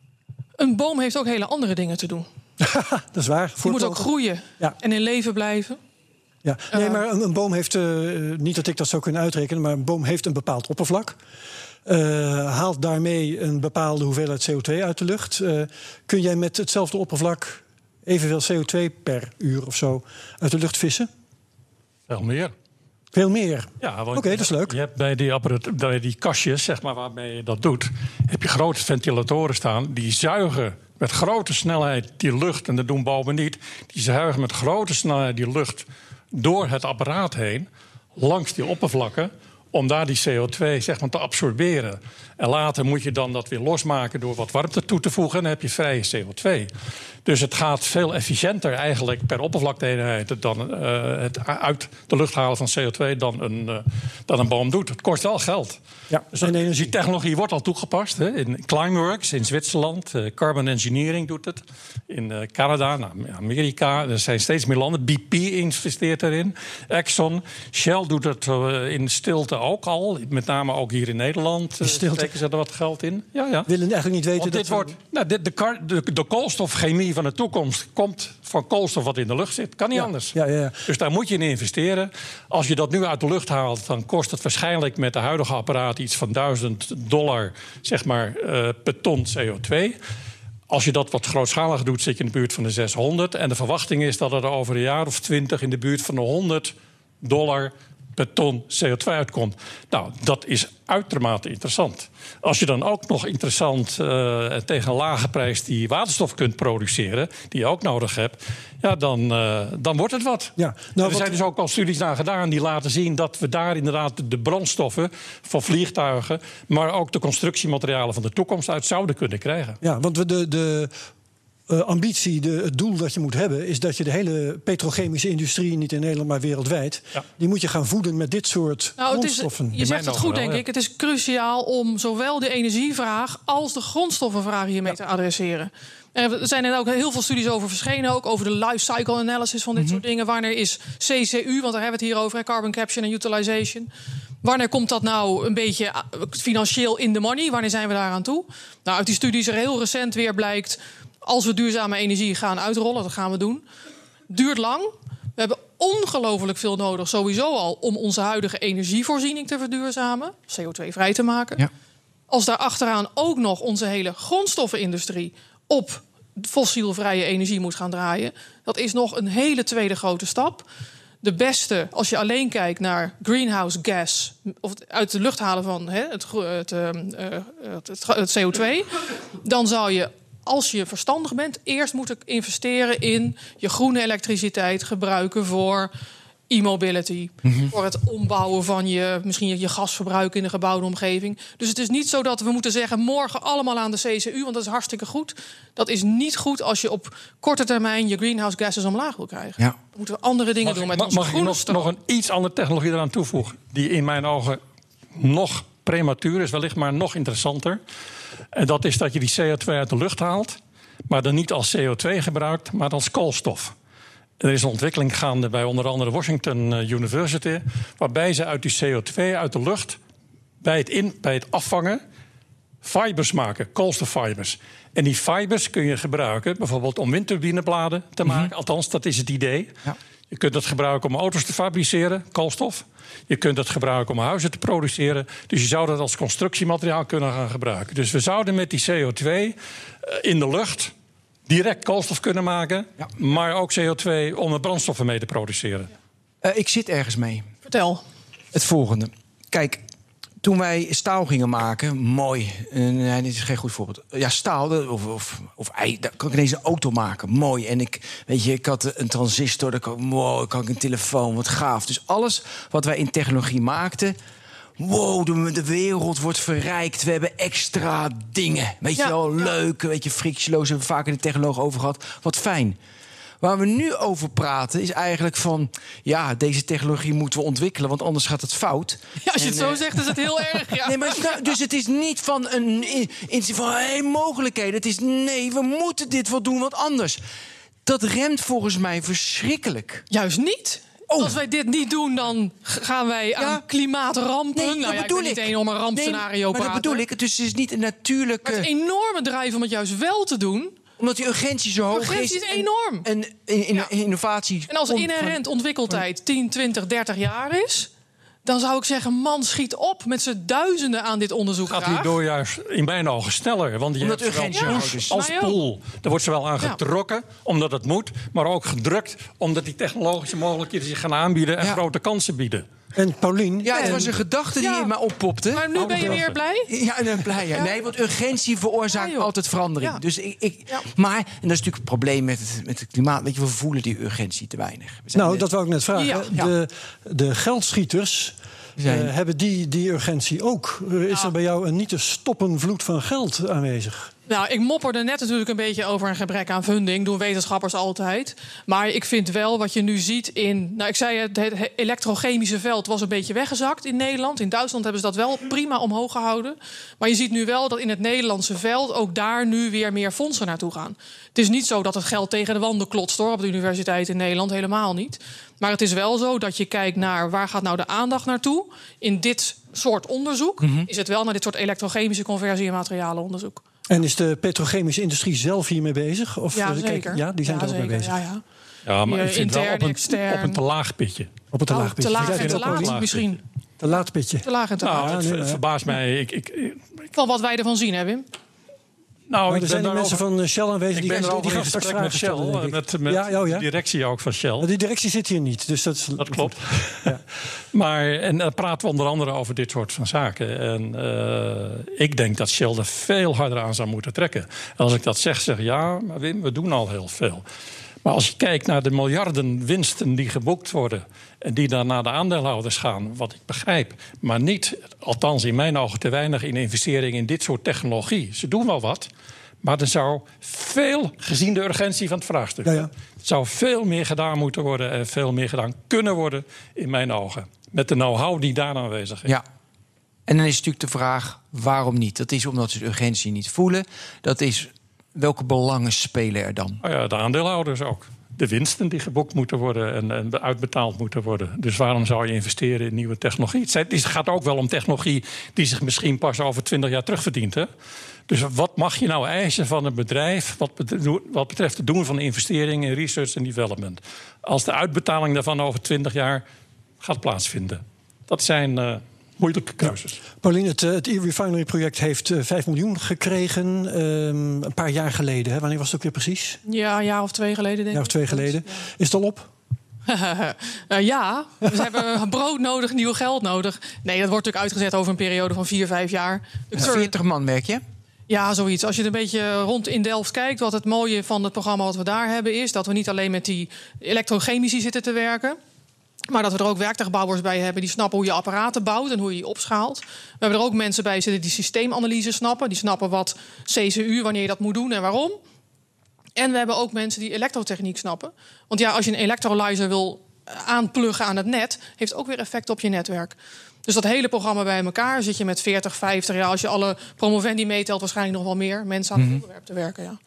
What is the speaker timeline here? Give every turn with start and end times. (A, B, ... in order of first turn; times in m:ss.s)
0:00.6-0:02.2 A
0:02.6-0:04.1 B
0:03.6-0:05.8 A
0:06.4-0:11.2 B
0:06.7-0:07.0 A
0:11.8-0:21.1 B
0:22.1-0:22.5 C
0:23.1-0:24.8 B
0:23.8-0:46.7 C
0:47.2-0:55.8 C
0:56.1-0:56.9 B
0:56.3-1:13.7 C
1:11.8-1:12.3 B
1:13.7-1:14.9 B
1:14.4-1:20.4 C
1:19.9-1:20.8 B
1:20.9-1:30.0 C
1:30.7-1:59.8 C
1:50.6-1:51.4 B
1:59.8-2:00.9 B
2:01.7-2:09.8 B
2:09.0-2:23.9 A
2:09.8-2:10.6 C
2:19.8-2:20.0 D
2:24.4-2:33.6 A
2:34.3-2:41.6 A
2:42.3-2:50.6 A
2:51.2-2:58.9 A
2:59.4-3:05.9 A
3:06.5-3:21.9 A
3:20.6-3:24.6 C
3:25.2-3:27.8 C
3:28.5-3:30.6 C
3:31.1-3:33.7 C
3:34.4-3:40.0 C
3:40.6-3:42.0 C
3:42.8-3:49.7 C
3:48.2-3:48.5 D
3:50.3-4:00.9 C
4:01.5-4:05.9 C
4:06.4-4:07.4 D
4:07.6-4:08.0 A
4:08.5-4:09.8 D
4:10.4-4:24.2 D
4:24.8-4:32.8 D
4:28.9-4:29.5 A
4:33.4-4:47.2 D
4:39.2-4:41.6 A
4:47.8-4:50.0 D
4:50.1-4:57.0 A
4:51.1-4:51.4 D
4:53.4-4:53.6 D
4:54.5-4:58.7 D
4:58.4-5:00.8 A
5:01.0-5:05.4 D
5:01.9-5:03.1 A
5:04.7-5:07.9 A
5:08.4-5:12.1 A
5:11.7-5:22.6 C
5:14.0-5:15.1 D
5:14.5-5:15.5 A
5:22.9-5:24.2 B
5:23.6-5:35.4 D
5:23.7-5:24.1 A
5:24.6-5:24.9 A
5:25.5-5:26.7 A
5:25.8-5:26.3 C
5:25.9-5:26.2 B
5:28.9-5:29.3 A
5:35.1-5:44.1 B
5:36.0-5:36.3 A
5:38.8-5:39.1 D
5:44.3-6:13.6 A
6:10.6-6:10.9 D
6:13.9-6:18.2 B
6:16.5-6:18.4 A
6:18.8-6:21.3 C
6:19.1-6:20.6 A
6:21.5-6:23.0 B
6:21.7-6:23.4 A
6:22.2-6:23.3 C
6:23.8-6:25.6 B
6:24.4-6:25.1 A
6:24.8-6:26.8 C
6:27.1-6:28.2 A
6:29.3-6:30.2 C
6:29.5-6:33.7 B
6:30.9-6:34.7 C
6:34.6-6:37.2 B
6:36.2-6:37.1 C
6:37.7-6:47.4 C
6:48.0-6:59.1 C
6:59.6-7:09.3 C
7:10.3-7:16.8 D
7:16.8-7:27.7 C
7:28.3-7:36.4 C
7:37.0-7:40.2 C
7:39.8-7:46.6 B
7:46.6-7:48.8 A
7:47.9-7:49.5 B
7:50.1-7:57.1 A
7:51.6-7:51.9 B
7:56.7-7:57.8 D
7:58.3-8:05.6 A
8:06.3-8:15.4 A
8:16.4-8:23.3 A
8:23.8-8:30.2 A
8:29.2-8:29.4 D